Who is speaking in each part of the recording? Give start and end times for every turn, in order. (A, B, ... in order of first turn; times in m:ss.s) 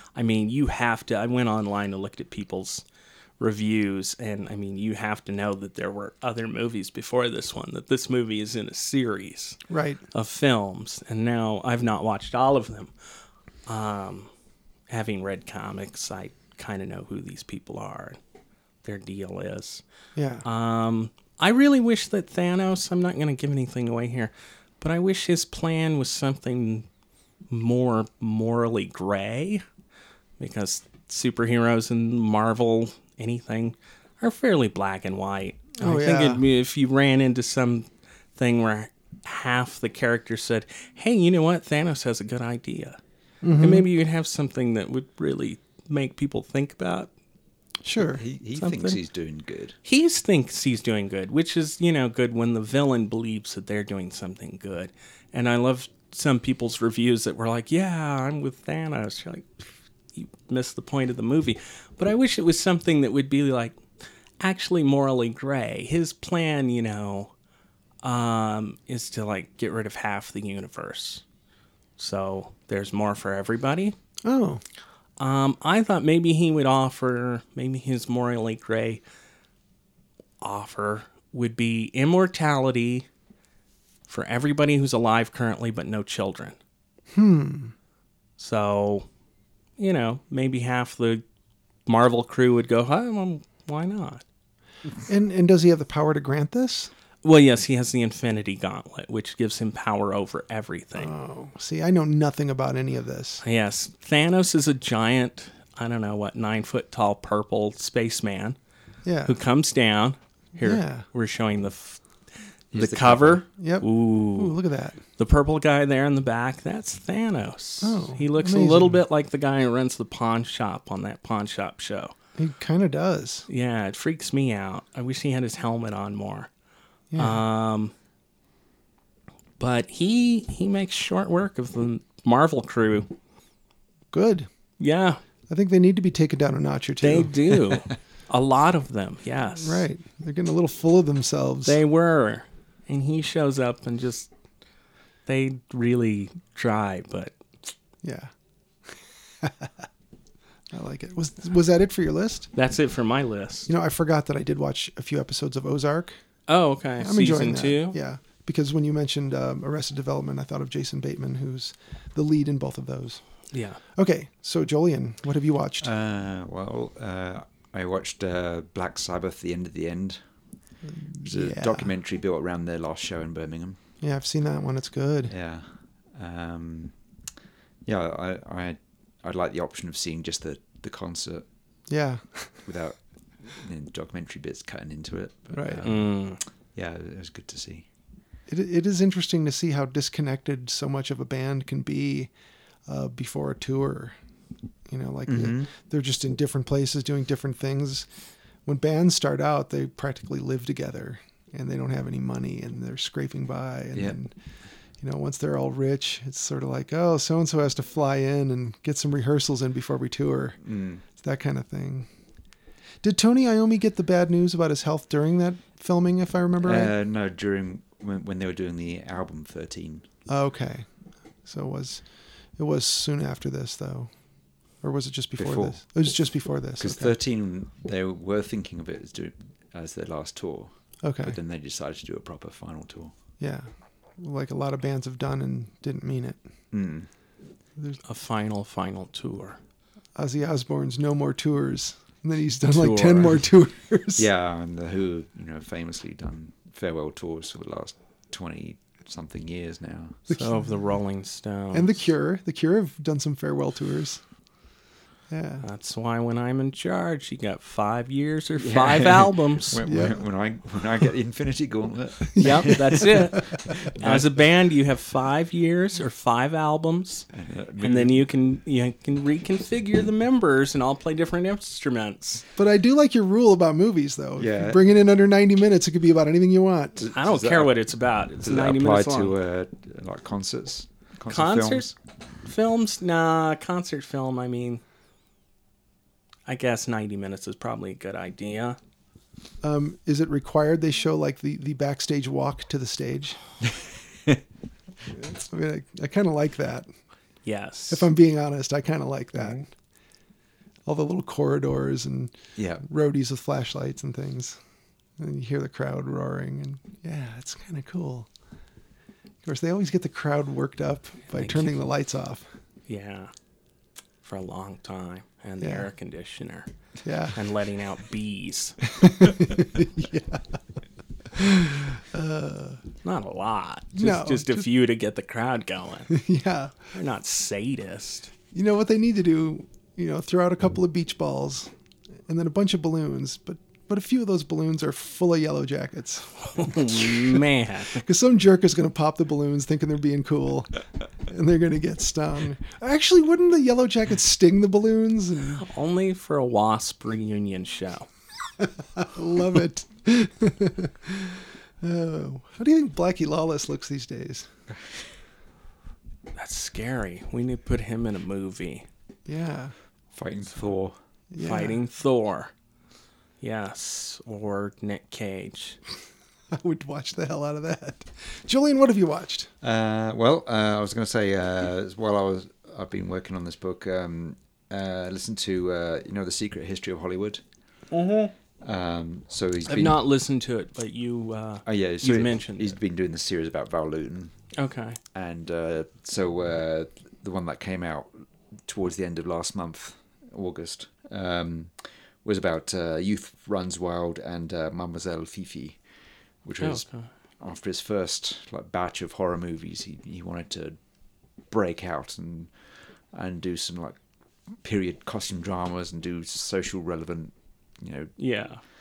0:00.2-0:02.8 A
0:03.4-0:09.6 A
0:09.7-0:10.0 B
0:10.1-0:12.9 A
0:13.7-0:14.3 A
0:14.9-0:18.2 A
0:18.8-0:19.8 A
0:20.2-0:20.5 B
0:20.4-0:26.9 A
0:27.5-0:29.6 A
0:30.4-0:43.0 A
0:35.8-0:36.4 B
0:43.4-0:43.9 B
0:43.6-0:47.1 A
0:47.8-0:48.2 B
0:48.2-0:49.8 C
0:48.6-0:49.0 A
0:49.8-1:03.8 A
1:04.4-1:07.3 A
1:08.0-1:11.2 A
1:12.0-1:14.0 A
1:14.2-1:14.6 B
1:15.2-1:19.0 A
1:20.4-1:23.1 A
1:24.1-1:26.6 A
1:27.1-1:27.7 B
1:28.4-1:29.1 A
1:29.8-1:31.2 A
1:31.9-1:34.2 A
1:35.1-1:36.9 B
1:37.2-1:41.1 A
1:41.0-1:43.4 B
1:43.4-1:48.6 A
1:49.0-1:49.4 B
1:49.2-1:52.0 A
1:50.6-1:51.0 B
1:52.7-1:53.4 C
1:52.7-1:54.6 A
1:53.6-1:55.0 B
1:55.2-2:02.2 A
1:57.8-1:59.0 B
2:02.4-2:03.5 B
2:03.5-2:06.5 A
2:07.1-2:07.4 B
2:07.2-2:07.9 A
2:09.6-2:13.1 A
2:14.1-2:14.5 B
2:14.8-2:15.2 A
2:15.5-2:17.6 B
2:17.0-2:19.8 A
2:19.6-2:21.8 B
2:21.6-2:24.3 A
2:25.3-2:27.3 A
2:28.0-2:28.3 B
2:28.9-2:29.9 B
2:30.7-2:32.5 B
2:32.5-2:33.7 A
2:33.7-2:36.2 B
2:36.5-2:38.0 A
2:37.0-2:43.2 B
2:43.5-2:43.8 A
2:43.9-2:45.9 B
2:45.8-2:50.2 C
2:50.9-2:51.9 B
2:51.2-2:53.8 C
2:54.0-2:55.3 B
2:55.3-2:56.9 C
2:57.8-3:01.4 C
3:01.9-3:02.5 B
3:02.7-3:06.2 C
3:05.5-3:05.8 B
3:05.8-3:06.4 A
3:06.8-3:07.9 C
3:08.5-3:12.3 B
3:12.9-3:14.1 B
3:14.9-3:18.1 B
3:15.3-3:15.7 C
3:18.6-3:24.3 B
3:25.0-3:30.6 B
3:30.6-3:31.0 C
3:31.1-3:32.1 B
3:33.0-3:36.9 B
3:36.6-3:40.1 C
3:40.3-3:40.9 B
3:41.4-3:42.0 B
3:42.6-3:44.1 B
3:44.8-3:47.2 B
3:45.4-3:45.8 C
3:46.8-3:53.1 C
3:51.0-3:51.4 B
3:53.4-3:56.4 B
3:56.7-3:57.1 C
3:58.0-3:59.6 A
4:00.2-4:04.3 B
4:02.7-4:03.4 A
4:04.2-4:10.2 C
4:10.3-4:10.6 B
4:10.3-4:11.9 A
4:11.7-4:14.2 B
4:15.3-4:15.6 B
4:15.6-4:19.8 A
4:18.6-4:24.3 C
4:19.9-4:20.2 B
4:22.3-4:23.7 B
4:22.4-4:27.3 A
4:27.3-4:28.2 C
4:27.8-4:32.4 A
4:32.6-4:37.1 B
4:34.4-4:34.8 C
4:37.0-4:37.7 C
4:37.1-4:39.4 A
4:38.4-4:41.9 C
4:41.3-4:41.9 A
4:42.4-4:44.8 A
4:46.5-4:48.8 A
4:49.6-4:53.4 B
4:55.1-4:56.9 B
4:57.4-4:58.1 A
4:57.9-4:59.7 B
5:00.9-5:04.6 B
5:02.6-5:02.8 C
5:05.2-5:08.3 B
5:09.4-5:12.5 B
5:11.3-5:11.8 A
5:12.9-5:13.3 A
5:14.2-5:16.7 A
5:15.6-5:15.9 B
5:17.0-5:17.4 B
5:17.3-5:18.8 A
5:18.9-5:20.6 B
5:21.3-5:22.8 B
5:23.0-5:26.1 A
5:23.9-5:24.7 B
5:26.1-5:26.8 B
5:26.9-5:28.3 A
5:28.5-5:31.7 B
5:32.3-5:37.4 B
5:36.5-5:38.0 A
5:38.0-5:40.7 B
5:41.3-5:45.6 B
5:45.6-5:48.1 A
5:48.6-5:54.5 B
5:56.4-5:58.9 A
5:59.3-5:59.7 B
6:00.1-6:01.0 C
6:01.3-6:01.8 B
6:01.4-6:02.5 A
6:03.4-6:05.8 A
6:06.5-6:09.5 B
6:09.6-6:17.4 C
6:18.0-6:18.3 A
6:18.6-6:20.0 C
6:19.7-6:22.8 A
6:21.7-6:24.4 C
6:24.6-6:25.0 A
6:25.1-6:28.1 C
6:28.7-6:35.8 C
6:36.4-6:36.9 C
6:36.6-6:37.1 A
6:37.4-6:40.8 C
6:41.5-6:42.5 C
6:43.1-6:44.0 C
6:44.6-6:48.2 C
6:48.2-6:48.6 A